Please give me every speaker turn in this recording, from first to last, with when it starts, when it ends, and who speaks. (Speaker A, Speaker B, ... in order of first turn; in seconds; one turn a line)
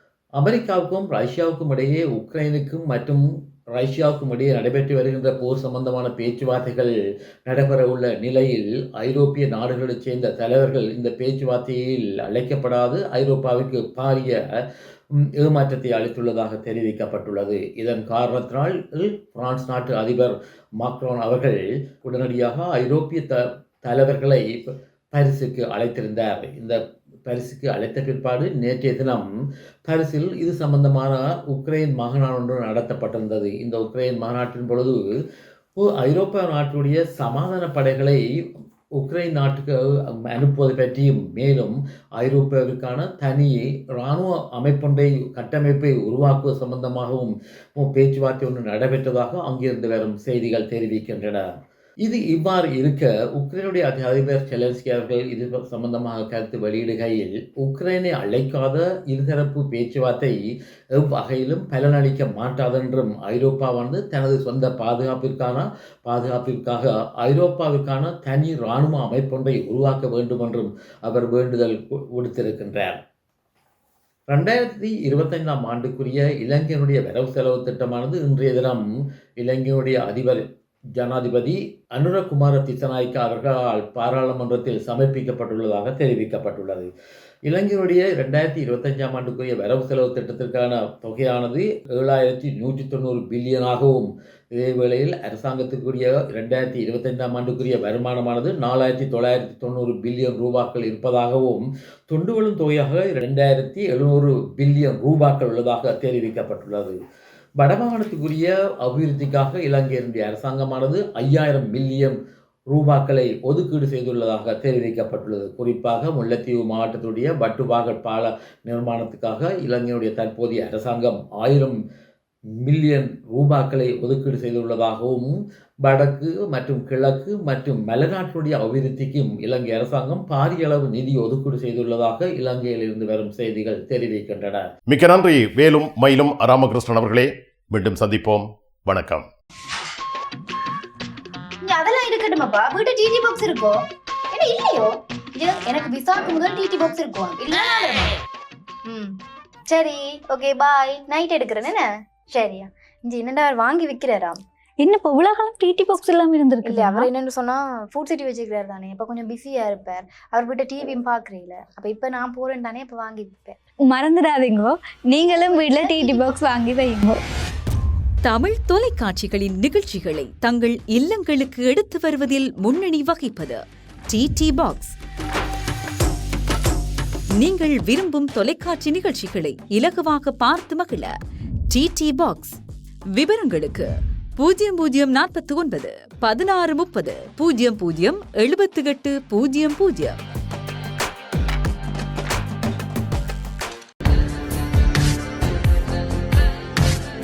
Speaker A: 0.4-6.9
Speaker A: 7.5-14.5
Speaker A: 15.2-29.3
Speaker A: 29.9-35.1
Speaker A: 35.8-38.2
Speaker A: 39.0-51.5
Speaker A: 52.0-60.4
Speaker A: 61.0-73.0
Speaker A: 74.3-78.9
Speaker A: 79.4-80.4
Speaker A: 81.0-86.9
Speaker A: 87.5-107.0
Speaker A: 107.6-112.2
Speaker A: 112.7-121.8
Speaker A: 122.6-134.7
Speaker B: 134.9-139.2
Speaker C: 141.6-148.1
Speaker C: 148.9-149.1
Speaker C: 149.7-154.4
Speaker D: 154.8-157.1
Speaker C: 156.6-163.6
Speaker D: 163.8-167.2
Speaker C: 165.2-166.3
Speaker E: 168.2-174.9
Speaker E: 177.4-181.1
Speaker E: 181.7-182.6
Speaker E: 183.1-190.2